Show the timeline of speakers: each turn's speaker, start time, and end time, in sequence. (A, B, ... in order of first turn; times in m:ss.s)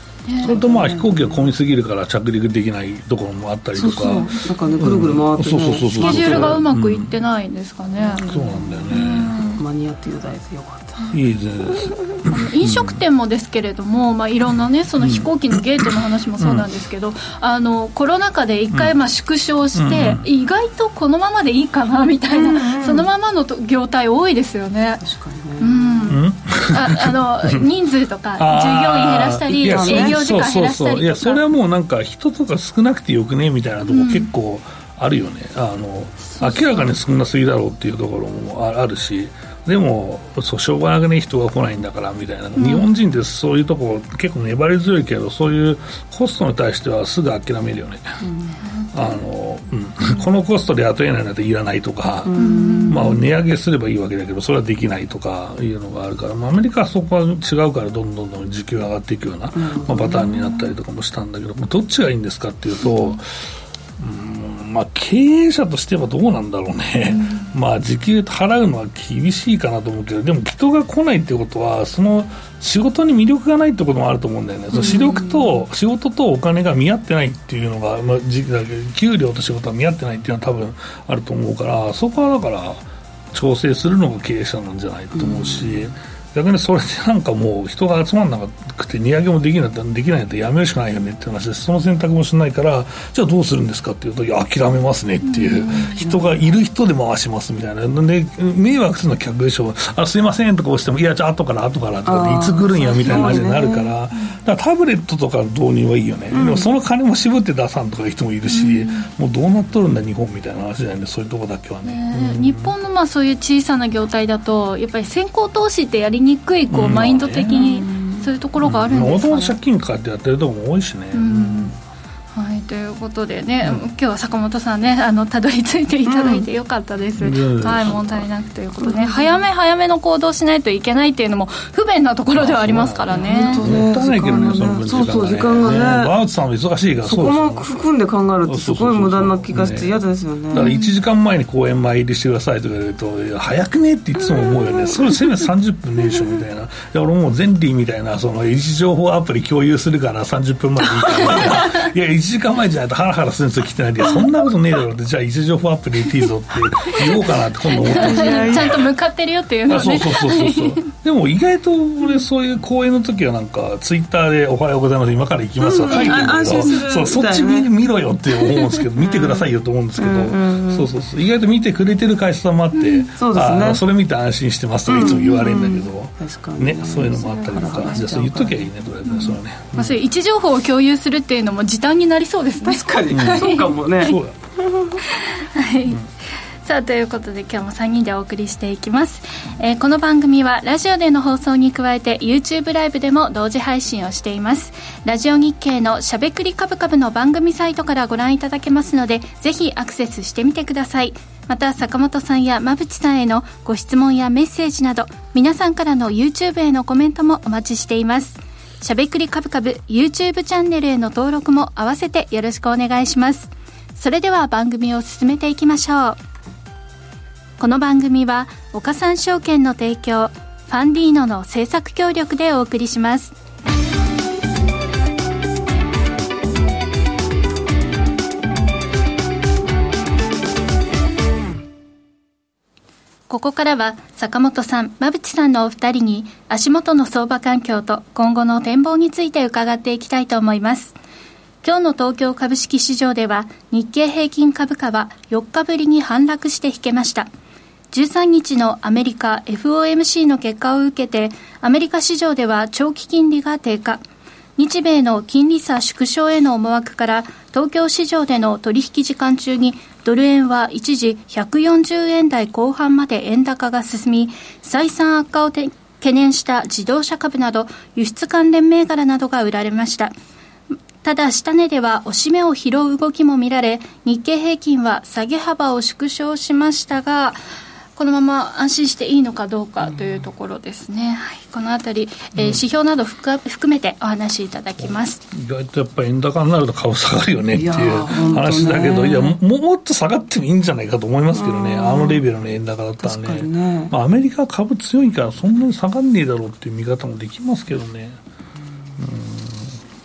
0:00.2-0:00.6 A
0:00.4-0:01.5 B
0:00.4-0:07.1 C
0:03.7-0:06.6 B
0:06.0-0:08.2 A
0:08.0-0:08.9 B
0:08.2-0:09.3 C
0:08.9-0:09.6 A
0:09.6-0:11.2 B
0:11.1-0:13.0 C
0:11.7-0:12.2 B
0:12.3-0:25.0 A
0:15.0-0:15.3 C
0:16.4-0:16.7 C
0:19.7-0:20.2 C
0:22.3-0:23.1 B
0:25.0-0:26.2 B
0:25.6-0:31.4 A
0:26.1-0:27.7 C
0:28.4-0:48.2 C
0:29.6-0:30.2 B
0:33.8-0:34.3 A
0:36.3-0:36.9 A
0:42.6-0:42.9 A
0:48.2-0:48.6 B
0:48.9-1:52.7 C
0:52.2-0:53.2 B
0:52.4-0:53.1 A
0:59.5-1:00.5 B
1:02.8-1:03.2 A
1:07.1-1:07.5 A
1:14.7-1:15.5 B
1:25.1-1:25.9 B
1:35.2-1:36.0 A
1:36.0-1:36.4 B
1:42.0-1:43.9 B
1:42.8-1:43.5 A
1:46.3-1:46.7 B
1:48.5-1:49.1 A
1:51.8-1:59.6 A
1:56.7-1:57.7 C
1:57.5-1:58.3 B
1:58.6-2:01.8 C
2:01.1-2:01.7 A
2:02.3-2:13.7 A
2:06.0-2:06.5 B
2:07.2-2:08.0 C
2:08.8-2:09.4 B
2:12.3-2:17.8 C
2:13.1-2:16.1 B
2:17.0-2:20.7 B
2:18.4-2:38.8 C
2:20.5-2:21.0 A
2:24.3-2:25.2 B
2:37.6-2:38.8 B
2:37.8-2:40.9 A
2:39.7-3:00.0 C
2:45.6-2:47.7 B
2:45.9-2:46.2 A
2:49.0-2:50.9 B
2:52.7-2:53.1 A
2:53.2-2:53.8 B
2:54.9-2:58.7 B
2:55.0-2:55.8 A
2:57.7-2:58.0 A
2:59.0-3:04.1 A
3:02.6-3:05.0 B
3:03.1-3:04.4 C
3:05.0-3:06.0 A
3:06.6-3:36.2 A
3:37.6-3:43.3 A
3:53.3-4:00.9 A
4:01.6-4:07.3 A
4:07.9-4:14.0 A
4:14.6-4:30.1 A
4:30.7-4:37.4 A
4:38.0-4:45.2 A
4:39.8-4:40.3 B
4:42.3-4:42.6 C
4:44.8-4:58.2 C
4:47.5-4:49.4 B
4:51.3-4:52.2 B
4:53.0-4:53.9 B
4:59.0-4:59.7 C